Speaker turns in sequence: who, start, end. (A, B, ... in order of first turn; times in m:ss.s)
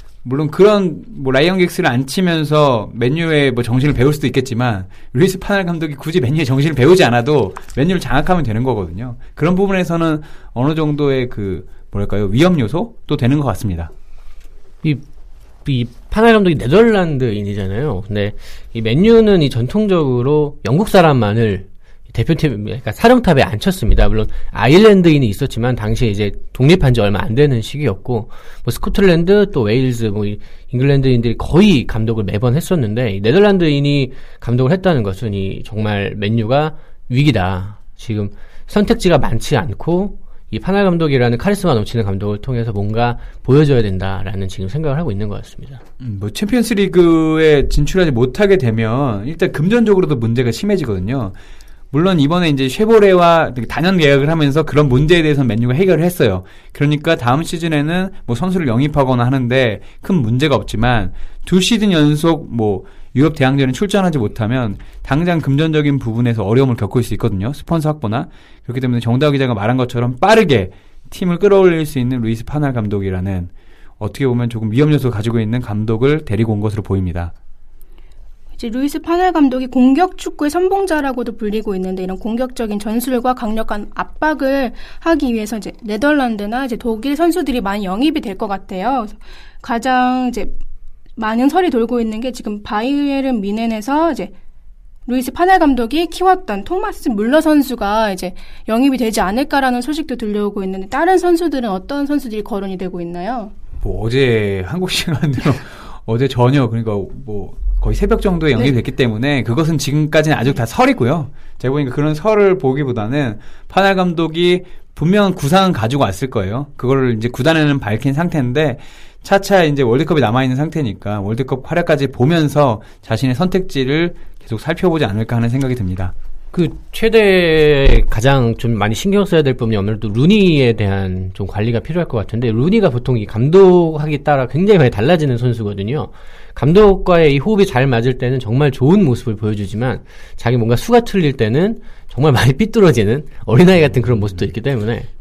0:00.2-0:13.9 A
0:15.6-0:45.8 B
0:46.0-0:51.4 A
0:51.9-1:17.3 A
1:18.6-1:30.5 C
1:31.2-1:34.3 C
1:35.0-1:43.5 C
1:43.8-2:06.1 A
2:06.5-2:25.1 B
2:23.9-2:24.4 A